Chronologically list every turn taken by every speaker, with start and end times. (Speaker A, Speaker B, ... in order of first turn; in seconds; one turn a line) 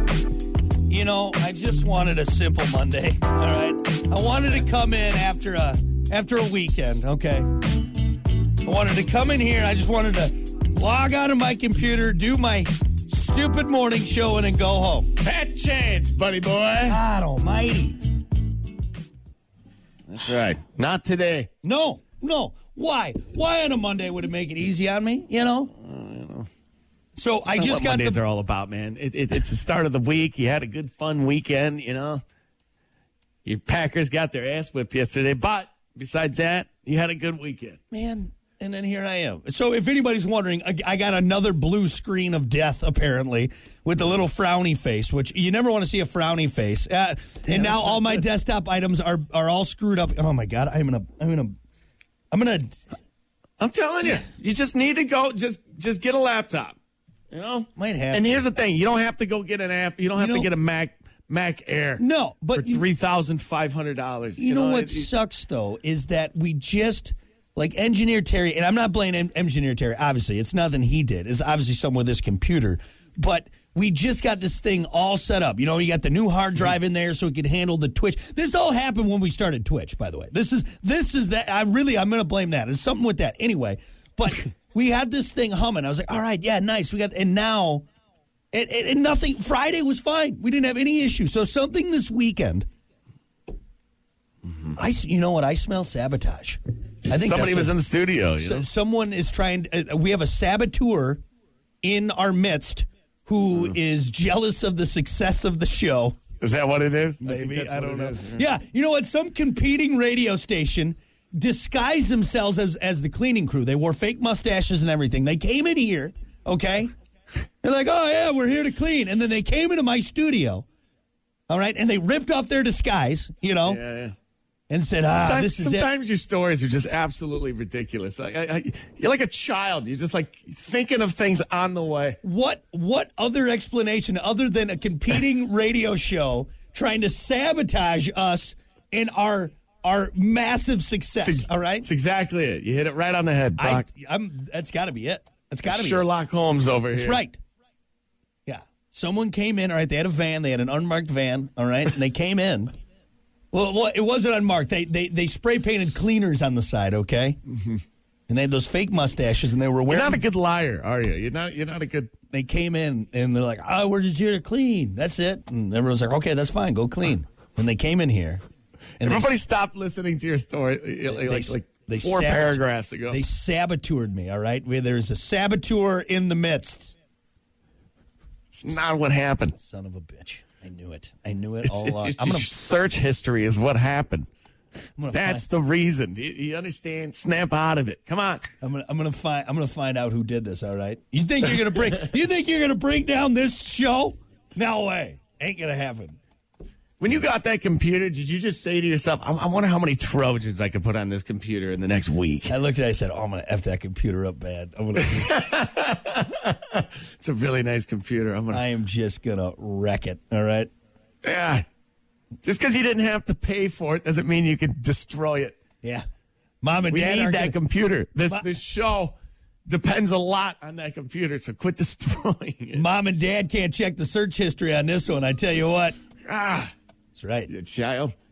Speaker A: 0.9-7.5
Speaker A: 8.6-15.1
Speaker B: 15.2-17.0
Speaker A: 16.9-18.0
Speaker B: 20.1-21.5
Speaker A: 21.6-25.7
Speaker B: 25.8-26.5
Speaker A: 27.2-28.2
Speaker B: 27.6-32.2
Speaker B: 33.5-37.8
Speaker A: 37.9-51.6
Speaker B: 47.5-48.2
Speaker A: 52.3-52.8
Speaker B: 53.6-56.8
Speaker B: 57.3-62.0
Speaker A: 57.8-58.4
Speaker A: 60.2-60.5
Speaker A: 62.0-62.9
Speaker B: 62.5-65.1
Speaker A: 64.4-87.8
Speaker A: 88.5-92.7
Speaker A: 94.8-97.8
Speaker B: 97.2-98.7
Speaker A: 98.4-101.2
Speaker A: 101.8-106.2
Speaker B: 106.4-108.5
Speaker A: 107.2-116.9
Speaker A: 117.6-120.7
Speaker A: 121.5-123.8
Speaker B: 123.7-124.1
Speaker A: 124.7-125.9
Speaker B: 125.2-132.2
Speaker A: 132.2-141.9
Speaker B: 141.2-143.8
Speaker A: 143.6-146.1
Speaker B: 145.7-147.2
Speaker A: 146.9-147.4
Speaker A: 148.5-152.7
Speaker A: 153.5-157.4
Speaker A: 158.3-160.2
Speaker B: 159.9-162.1
Speaker A: 162.3-168.4
Speaker A: 169.0-169.4
Speaker B: 169.0-173.2
Speaker A: 171.1-176.9
Speaker B: 178.5-179.6
Speaker A: 179.6-182.5
Speaker B: 181.6-184.3
Speaker A: 185.0-185.5
Speaker B: 185.1-188.5
Speaker A: 188.6-196.2
Speaker B: 197.0-202.5
Speaker A: 202.5-205.4
Speaker B: 205.0-208.6
Speaker A: 208.5-210.7
Speaker B: 211.2-211.7
Speaker B: 212.4-215.6
Speaker A: 216.6-217.6
Speaker B: 216.9-222.8
Speaker A: 222.7-226.0
Speaker B: 226.2-226.7
Speaker A: 227.2-227.5
Speaker B: 227.5-228.2